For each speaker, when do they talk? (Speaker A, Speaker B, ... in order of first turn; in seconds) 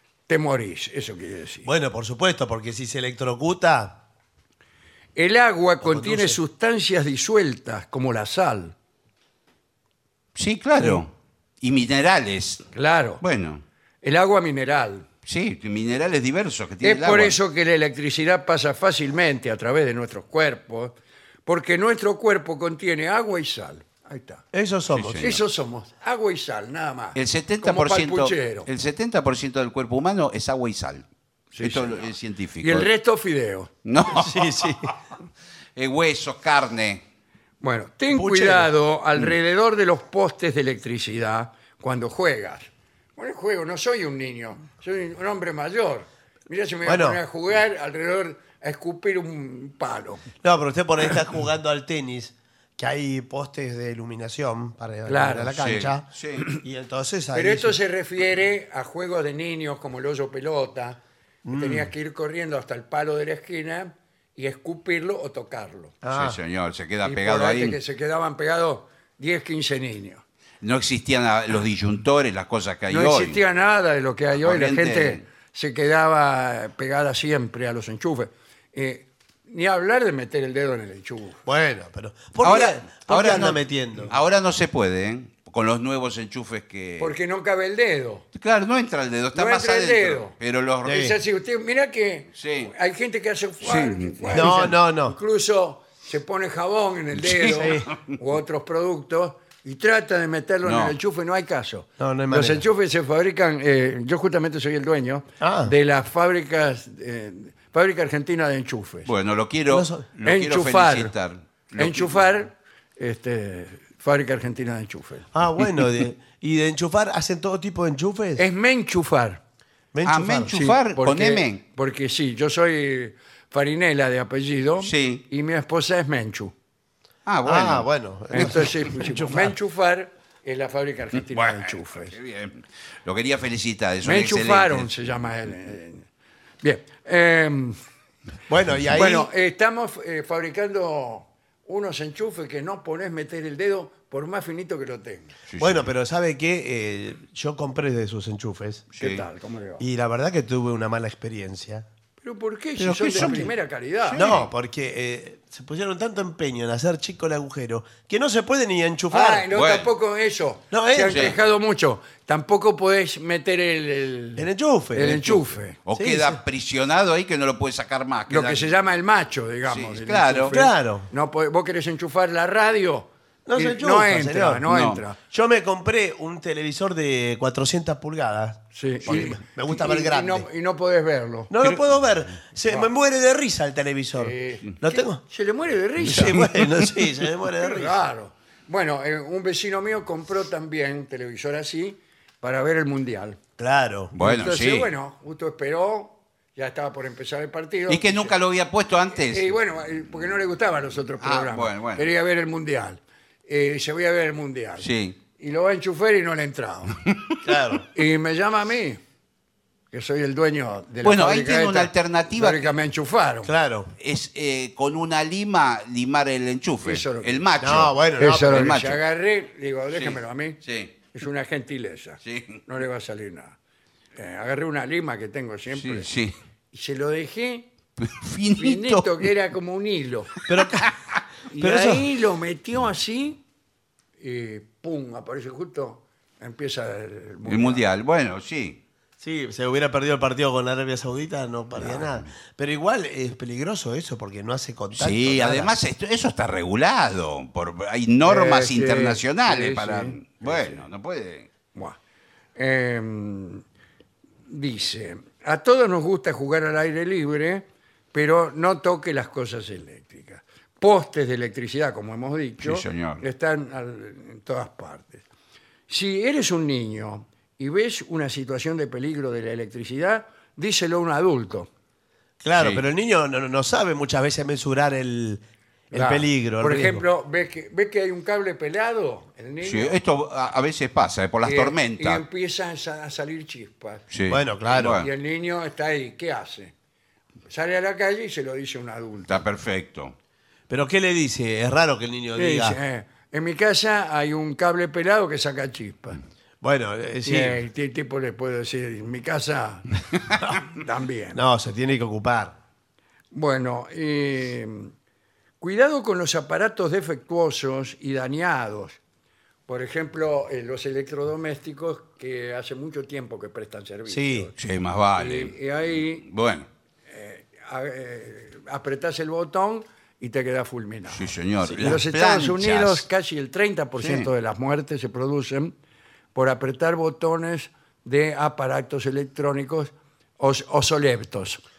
Speaker A: 0.3-1.7, 5.1-8.7, 12.7-13.2, 14.0-15.1, 16.8-24.4, 25.2-28.7, 31.5-33.7, 37.6-50.3, 55.0-55.6, 57.3-66.0, 67.0-70.2, 72.8-81.4, 87.0-88.2, 89.3-90.4, 90.9-109.1, 110.2-111.2, 111.8-115.3, 118.4-119.4, 120.4-126.5, 128.3-132.2, 134.0-136.1, 136.6-137.8, 138.8-145.4, 148.9-149.8, 152.2-154.3, 159.1-165.8, 168.3-175.2, 178.7-181.5, 182.6-182.9, 184.2-193.4, 194.2-198.4, 199.1-206.9, 207.8-209.0, 209.9-213.5, 216.8-223.6, 224.1-226.2, 226.7-227.7, 228.5-230.4, 231.5-233.4, 234.2-237.9, 248.2-250.8, 252.6-253.6, 254.5-265.2, 265.9-271.7, 275.9-280.0, 281.4-286.7, 287.5-289.5, 292.4-296.2, 297.2-301.4, 303.3-304.9, 305.6-309.0, 309.7-316.3, 317.1-325.7, 326.3-331.6
Speaker B: 1.6-4.0, 5.8-6.4, 24.5-25.3, 34.1-34.9, 38.1-38.7, 46.8-47.2, 50.4-57.8, 61.4-61.9, 66.0-66.4, 81.4-84.1, 90.8-91.2, 94.3-95.2, 102.0-102.6, 105.4-105.7, 109.7-110.1, 115.3-118.4, 119.9-120.6, 127.4-129.6, 138.5-139.3, 145.6-149.0, 149.8-151.8, 153.1-153.5, 154.1-159.5, 160.7-161.2, 164.3-165.4, 165.9-166.4, 170.5-171.1, 173.4-174.7, 175.2-180.4, 181.5-185.2, 186.0-188.0, 193.6-194.2, 207.4-207.8, 213.4-213.9, 217.6-218.8, 230.4-230.9, 231.6-232.1, 239.2-245.7, 272.4-277.0, 284.3-285.0, 290.7-292.8, 296.6-297.6, 301.3-302.6, 314.1-314.5, 321.6-322.0
Speaker C: 10.3-12.6, 13.2-13.6, 15.2-17.4, 24.9-25.4, 27.1-31.1, 31.6-32.9, 33.8-35.0, 35.8-37.0, 55.6-56.5, 66.0-67.8, 70.6-73.4, 74.4-75.2, 82.4-87.1, 88.3-90.9, 92.3-92.7, 93.6-94.7, 97.2-98.0, 100.6-100.9, 109.0-112.3, 120.0-121.6, 124.8-125.2, 127.2-128.5, 131.2-134.9, 145.5-145.9, 152.8-153.5, 154.0-154.5, 159.5-159.9, 161.1-161.3, 165.8-168.8, 169.7-170.5, 174.7-175.0, 194.1-194.9, 197.9-199.5, 201.2-202.1, 204.8-205.2, 207.1-207.4, 211.0-212.7, 213.9-218.0, 218.6-219.0, 219.9-221.0, 222.2-222.6, 225.8-226.3, 228.0-229.2, 230.7-231.2, 237.4-238.8, 241.8-242.3, 244.9-251.5, 262.6-263.2, 272.5-272.8, 279.6-282.2, 284.1-285.1, 289.3-290.1, 314.6-315.5, 316.2-316.7, 321.1-323.1, 324.0-324.3